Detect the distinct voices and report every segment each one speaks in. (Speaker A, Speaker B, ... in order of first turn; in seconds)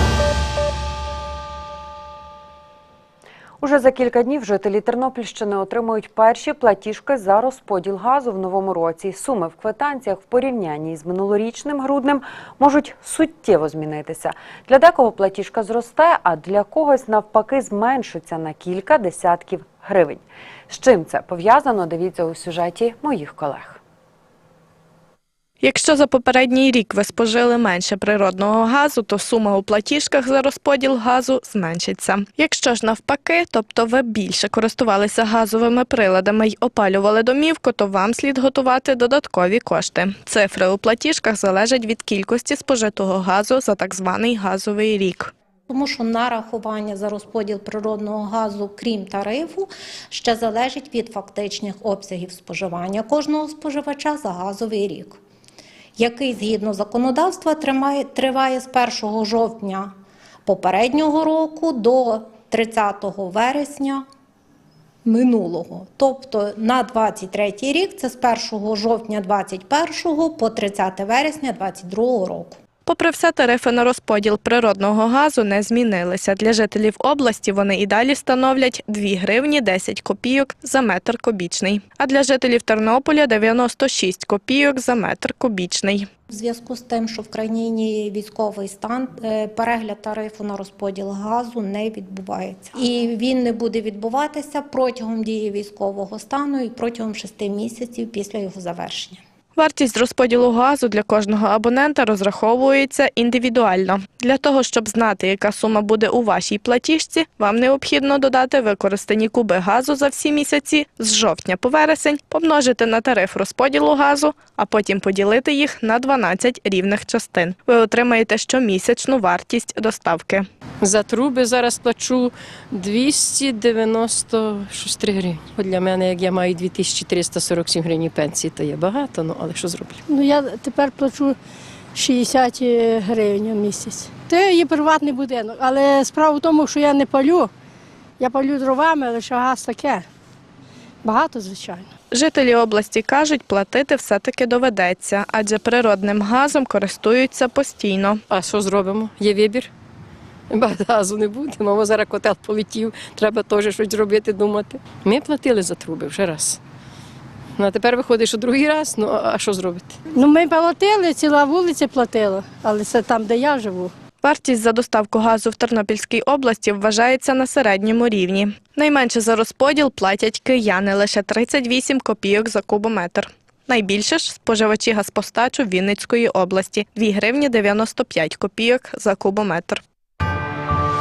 Speaker A: 3.6-23.8
Speaker B: 25.6-45.3, 72.8-86.1, 99.5-120.5, 142.1-148.2, 164.2-179.8
Speaker C: 45.7-55.2, 56.0-59.9, 60.5-64.0, 65.0-72.6, 86.3-99.2
Speaker D: 120.8-130.0, 148.3-149.7, 150.5-156.6, 157.6-159.9
Speaker E: 130.1-131.4, 131.9-137.5, 138.2-140.1, 141.0-141.9, 160.1-163.9